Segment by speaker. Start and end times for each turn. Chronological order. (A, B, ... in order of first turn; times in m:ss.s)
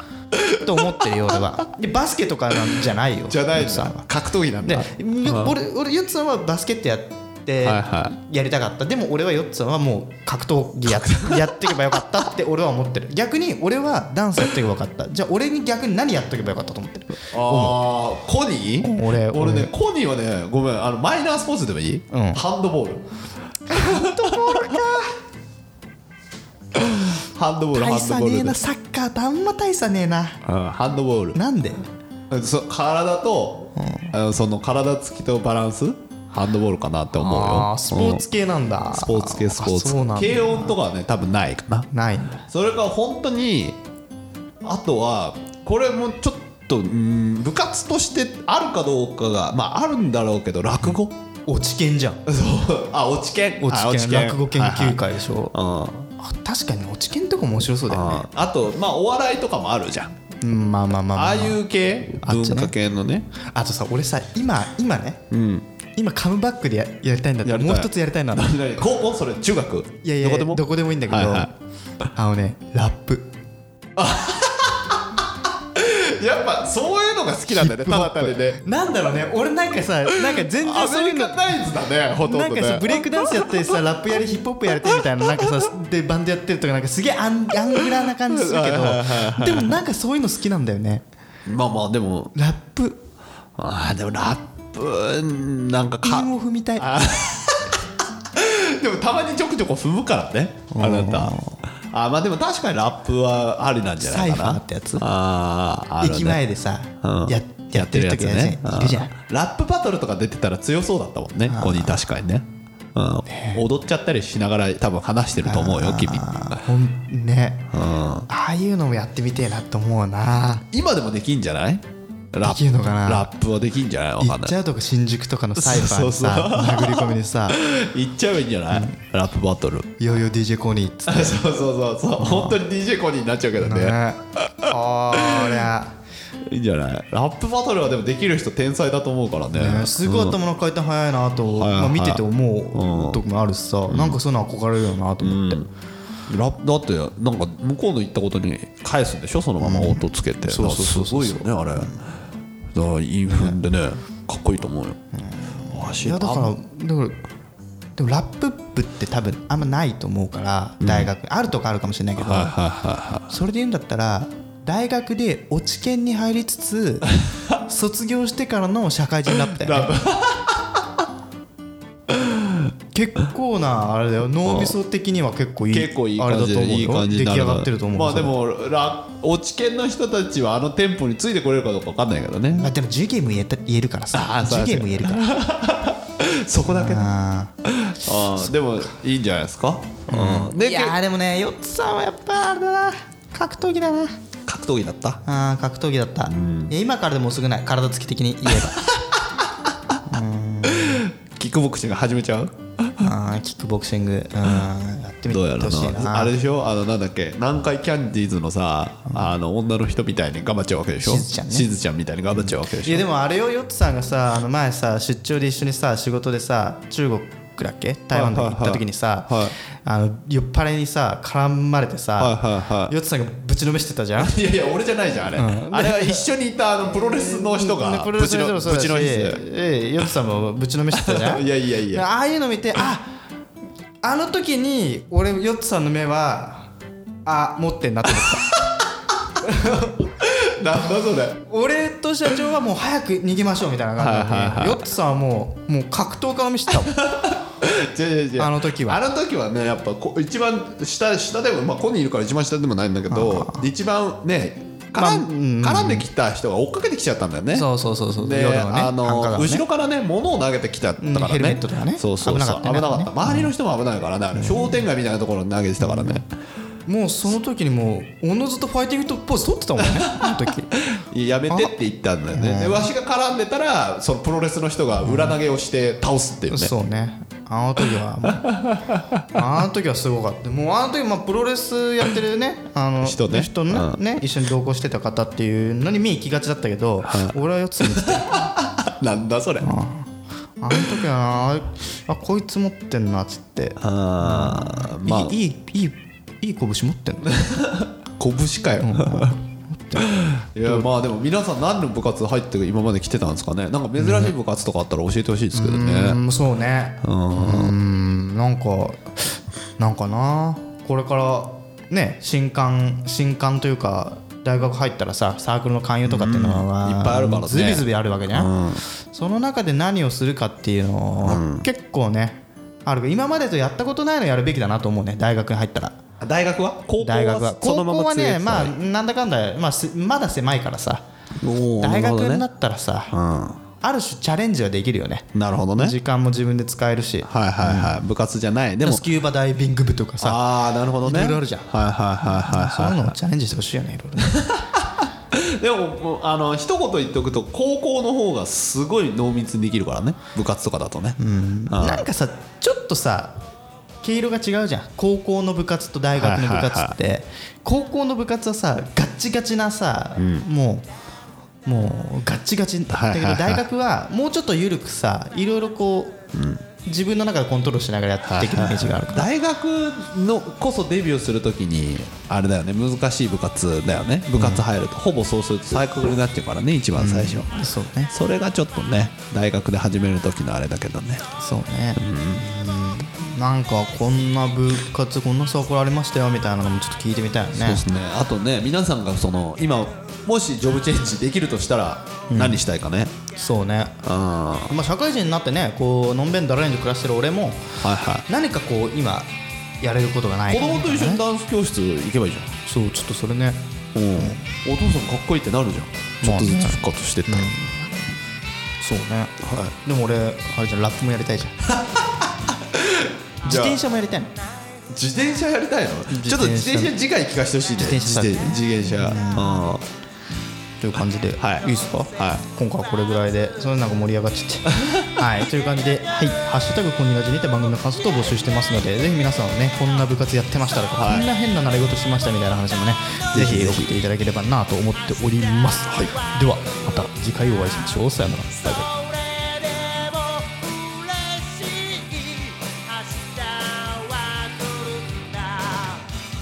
0:00.5-0:04.0 A
0:03.3-0:05.6 B
0:04.6-0:17.8 A
0:07.6-0:08.1 B
0:10.9-0:11.6 B
0:17.3-0:23.0 B
0:18.8-0:19.7 A
0:22.1-0:22.4 A
0:23.7-0:25.1 A
0:23.7-0:24.8 B
0:26.8-0:28.6 B
0:27.7-0:30.4 A
0:30.4-0:31.4 B
0:31.3-0:31.9 A
0:32.3-0:38.2 B
0:33.8-0:34.1 A
0:37.1-0:40.7 A
0:38.9-0:41.9 B
0:41.9-0:42.4 A
0:42.5-0:43.8 B
0:44.6-0:51.1 B
0:51.5-0:52.2 A
0:52.2-0:56.1 B
0:53.6-0:55.5 A
0:56.2-0:58.3 A
0:57.9-1:00.1 B
1:00.4-1:01.6 A
1:01.1-1:03.3 B
1:02.2-1:02.7 A
1:03.3-1:05.2 A
1:05.3-1:05.6 B
1:06.0-1:08.6 A
1:07.4-1:11.5 B
1:10.0-1:11.5 A
1:12.1-1:13.3 A
1:14.0-1:18.6 B
1:17.5-1:21.6 A
1:20.1-1:23.8 B
1:22.2-1:31.0 A
1:24.7-1:25.6 B
1:28.2-1:29.8 B
1:31.4-1:32.3 B
1:32.3-1:33.0 A
1:33.6-1:46.4 B
1:36.0-1:37.0 A
1:40.7-1:41.6 A
1:44.0-1:45.1 A
1:46.0-1:49.1 A
1:47.0-1:56.6 B
1:51.5-1:52.0 A
1:53.3-1:53.6 A
1:55.4-1:57.7 A
1:57.7-1:58.3 B
1:58.3-2:00.6 A
2:00.7-2:04.6 B
2:02.4-2:03.3 A
2:04.2-2:07.6 A
2:05.6-2:09.9 B
2:08.7-2:09.0 A
2:10.0-2:11.5 A
2:11.1-2:15.7 B
2:12.2-2:12.6 A
2:13.6-2:16.0 A
2:16.4-2:20.4 B
2:19.5-2:25.6 A
2:21.5-2:23.2 B
2:23.9-2:24.2 B
2:25.2-2:25.7 B
2:26.3-2:32.1 B
2:29.6-2:32.0 A
2:32.7-2:35.0 B
2:33.3-2:33.6 A
2:35.1-2:37.2 A
2:35.6-2:36.5 B
2:38.0-2:42.5 A
2:40.8-2:41.1 B
2:42.2-2:43.3 B
2:43.3-2:50.0 A
2:49.4-2:51.0 B
2:52.1-2:52.7 B
2:52.9-2:58.4 A
2:54.4-2:54.7 B
2:55.7-3:02.7 B
3:02.5-3:05.3 A
3:04.1-3:07.1 B
3:06.7-3:07.5 A
3:07.6-3:11.0 B
3:10.1-3:14.2 A
3:14.4-3:15.2 B
3:15.2-3:18.8 A
3:16.3-3:16.7 B
3:20.0-3:21.0 A
3:20.6-3:23.1 B
3:23.0-3:26.4 A
3:25.3-3:33.0 B
3:31.0-3:31.7 A
3:32.3-3:44.4 A
3:38.1-3:39.5 B
3:42.2-3:42.9 B
3:44.2-3:49.4 B
3:45.3-3:46.3 A
3:46.9-3:53.1 A
3:50.9-3:52.0 B
3:54.0-3:56.7 A
3:57.2-3:58.6 A
3:58.2-3:58.8 B
3:59.4-4:00.0 A
3:59.6-4:01.4 B
4:01.4-4:07.0 A
4:04.0-4:04.8 B
4:06.8-4:26.3 B
4:08.4-4:09.0 A
4:13.1-4:13.6 A
4:14.9-4:16.0 A
4:17.5-4:19.6 A
4:21.0-4:23.5 A
4:24.4-4:24.8 A
4:25.8-4:26.2 A
4:26.8-4:30.7 A
4:29.8-4:36.7 B
4:32.3-4:32.9 A
4:35.0-4:35.4 A
4:36.5-4:38.5 A
4:38.4-4:39.4 B
4:39.3-4:48.4 A
4:43.0-4:44.0 B
4:47.0-4:49.7 B
4:49.6-4:57.4 A
4:53.8-4:55.4 B
4:57.2-4:59.4 B
4:58.8-5:00.1 A
5:00.0-5:06.2 B
5:04.0-5:04.3 A
5:05.5-5:26.0 A
5:07.0-5:07.7 B
5:16.0-5:18.8 B
5:21.2-5:21.6 B
5:26.2-5:28.7 B
5:27.0-5:31.0 A
5:31.4-5:32.4 B
5:31.8-5:33.1 A
5:33.1-5:33.6 B
5:33.8-5:38.0 A
5:35.3-5:36.0 B
5:37.2-5:39.0 B
5:38.8-5:41.7 A
5:40.2-5:43.1 B
5:42.2-5:44.4 A
5:44.2-5:52.1 B
5:51.2-5:53.4 A
5:54.0-6:00.9 A
5:56.2-5:56.9 B
6:00.2-6:00.4 B
6:01.6-6:06.2 A
6:02.9-6:03.6 B
6:06.3-6:06.6 B
6:06.8-6:09.3 A
6:08.2-6:21.2 B
6:14.4-6:14.6 A
6:17.0-6:18.1 A
6:21.4-6:27.8 A
6:22.0-6:22.5 B
6:27.5-6:33.1 B
6:32.3-6:32.6 A
6:33.4-6:34.0 A
6:34.0-6:34.7 B
6:34.7-6:37.7 A
6:37.8-6:38.2 B
6:38.3-6:39.3 A
6:39.8-6:41.2 A
6:40.5-6:42.5 B
6:42.6-6:44.5 A
6:43.9-6:47.6 B
6:46.2-6:48.0 A
6:48.8-6:51.6 A
6:49.4-6:49.7 B
6:51.7-6:53.8 B
6:53.4-6:54.3 A
6:54.9-6:59.8 B
6:56.1-6:56.9 A
6:57.8-6:59.6 A
7:00.8-7:18.9 A
7:01.4-7:02.4 B
7:04.7-7:05.2 B
7:11.0-7:11.3 B
7:13.3-7:13.9 B
7:15.2-7:17.1 C
7:15.9-7:16.1 B
7:18.6-7:26.1 C